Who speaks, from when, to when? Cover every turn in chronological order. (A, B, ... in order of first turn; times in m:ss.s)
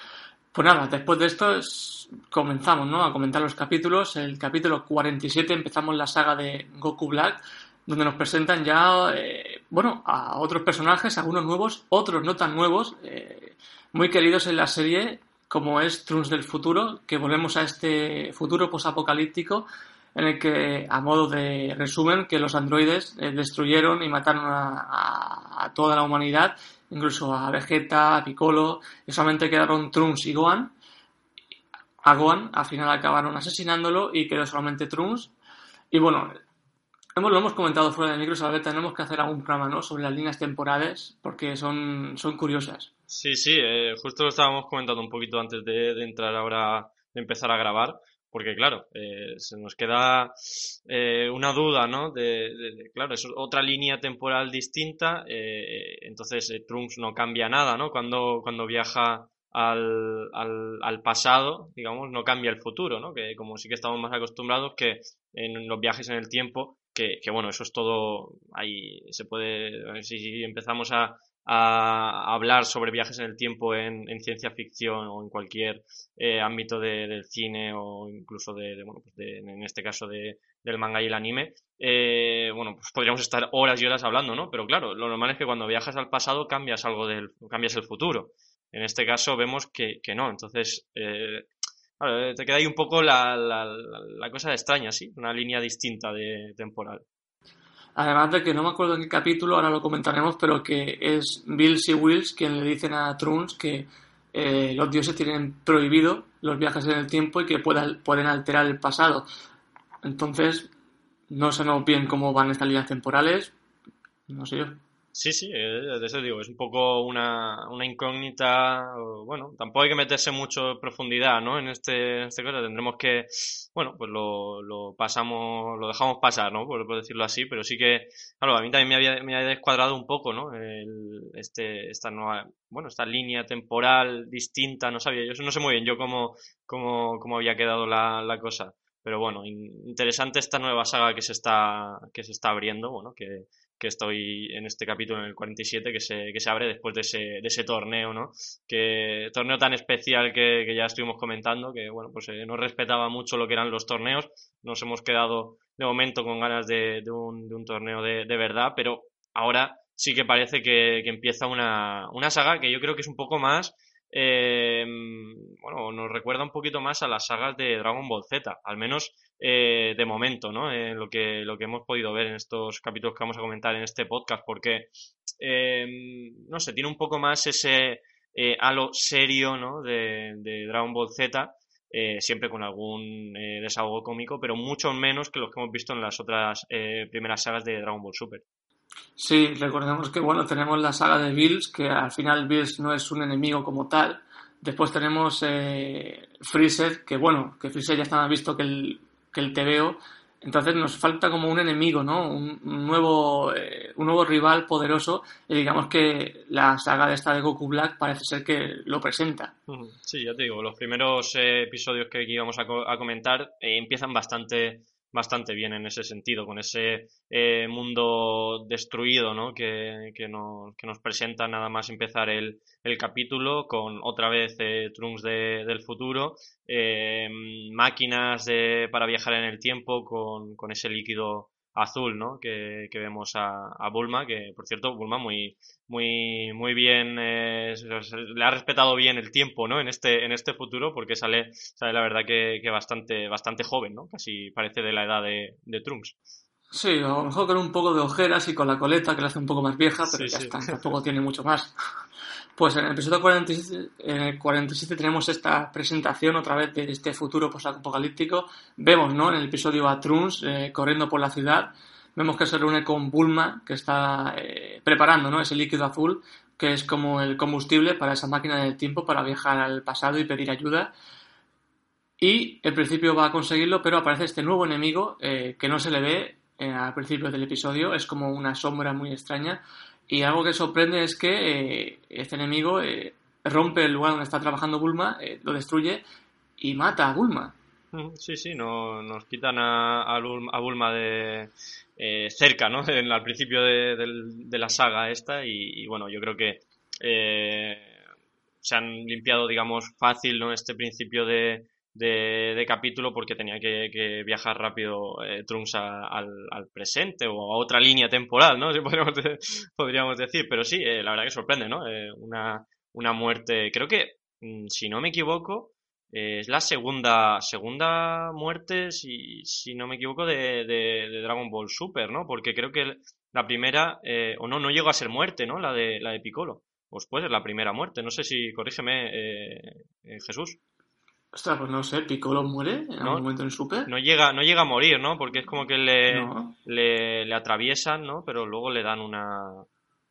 0:00.5-0:30.7 A
0:32.0-0:35.3 A
0:35.9-0:36.4 A
0:37.2-0:42.9 A
0:43.1-1:31.5 B
1:32.0-1:37.0 B
1:38.0-1:49.3 A
1:50.0-1:50.7 A
1:51.3-1:53.5 A
1:54.3-1:54.8 A
1:55.1-3:08.4 B
3:09.2-3:29.5 A
3:29.7-4:06.1 B
4:06.7-4:11.7 A
4:10.1-4:10.7 B
4:12.6-4:30.9 A
4:32.2-4:46.0 A
4:46.6-4:47.5 A
4:47.9-4:57.9 B
4:58.6-5:30.6 B
5:31.3-5:33.9 A
5:33.0-5:33.3 B
5:33.8-5:39.6 B
5:36.1-5:36.5 A